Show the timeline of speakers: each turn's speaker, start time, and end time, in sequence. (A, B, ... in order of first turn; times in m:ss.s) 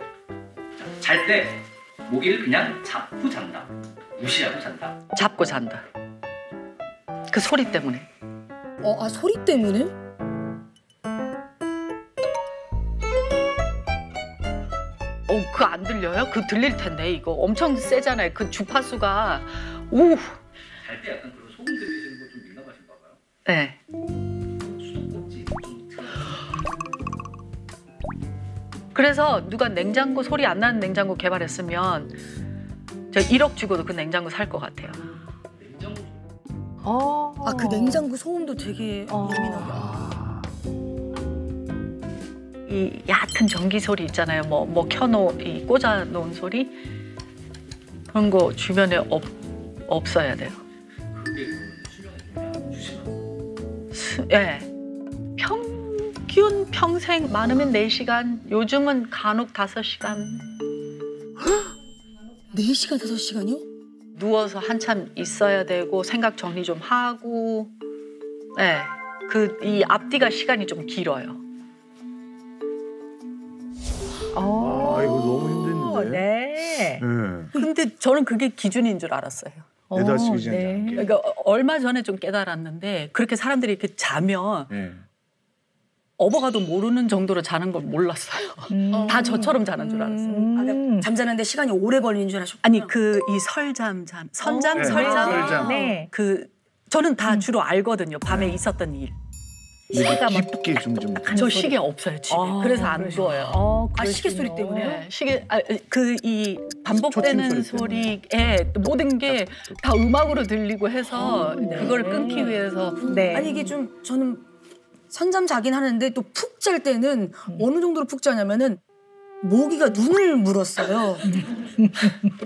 0:00.8-0:05.0 A
0:05.1-0:05.8 B
0:07.3-0:08.1 B
0:08.8-0:09.9 C
0:15.3-0:20.4 B
0:20.7-0:23.2 A
0:23.4-0:23.8 B
0:24.6-0:26.4 A
0:28.9-0:32.2 B
0:33.1-0:35.0 B
0:35.0-0:36.2 A
0:36.8-0:38.0 D
0:37.4-0:39.9 C
0:39.1-0:39.7 D
0:39.7-0:40.4 E
0:42.7-0:46.7 B
0:48.1-0:50.6 B
0:51.1-0:53.2 A
0:53.9-0:54.7 B
0:55.4-1:00.5 B
1:02.5-1:03.6 C
1:04.2-1:07.7 B
1:08.6-1:11.4 B
1:14.3-1:17.0 D
1:14.6-1:16.3 E
1:17.0-1:17.5 E
1:17.5-1:19.7 B
1:19.9-1:21.0 D
1:19.9-1:21.1 E
1:21.0-1:24.7 B
1:24.7-1:25.0 E
1:26.2-1:30.5 B
1:28.7-1:31.1 D
1:30.5-1:32.9 C
1:32.6-1:39.2 B
1:34.4-1:36.1 D
1:34.8-1:35.8 E
1:35.0-1:35.4 C
1:38.3-1:38.6 E
1:39.9-1:40.6 D
1:39.9-1:41.4 E
1:41.2-1:41.8 D
1:41.3-1:43.6 B
1:42.6-1:45.0 D
1:42.6-1:43.3 C
1:44.0-1:45.0 C
1:44.7-1:53.4 B
1:46.9-1:48.2 E
1:49.2-1:49.8 E
1:51.2-1:53.8 D
1:51.6-1:52.0 C
1:53.0-1:54.4 C
1:55.1-1:58.8 C
1:59.4-2:01.3 C
2:01.4-2:02.3 D